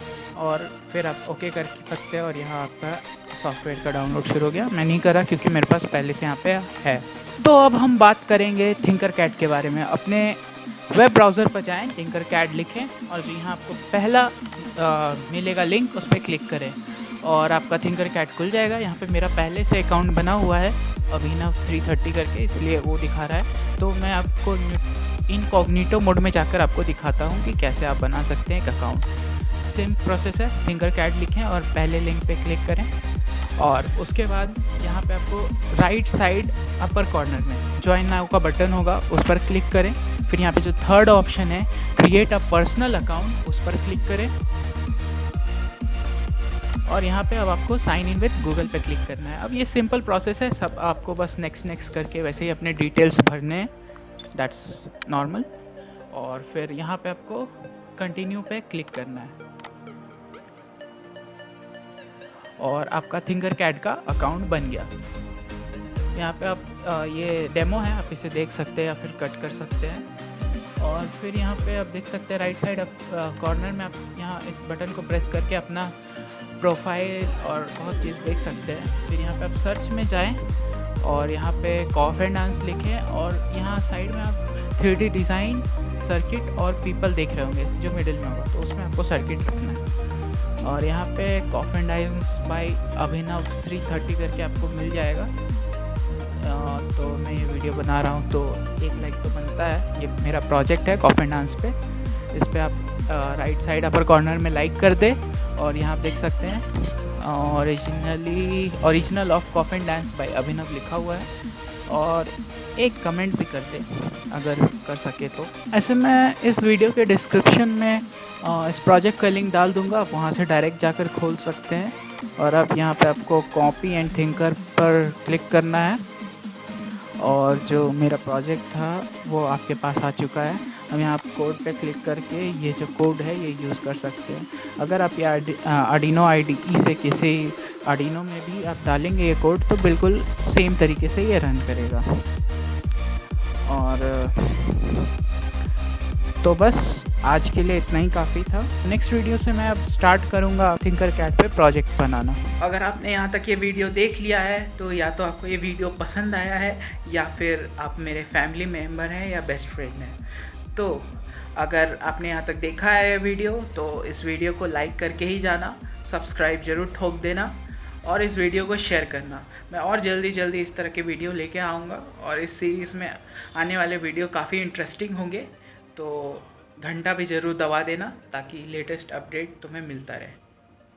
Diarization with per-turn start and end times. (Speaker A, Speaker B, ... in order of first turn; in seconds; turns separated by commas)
Speaker A: 0.3-29.1, Speaker A: 29.6-32.9, Speaker A: 33.6-44.3, Speaker A: 46.9-53.7, Speaker A: 54.3-55.5, Speaker A: 56.1-59.4, Speaker A: 62.6-64.9, Speaker A: 66.1-70.1, Speaker A: 70.8-80.5, Speaker A: 81.0-89.8, Speaker A: 90.6-95.3, Speaker A: 96.3-101.8, Speaker A: 102.3-111.3, Speaker A: 111.9-126.0, Speaker A: 127.2-142.1, Speaker A: 143.7-145.1, Speaker A: 146.4-180.4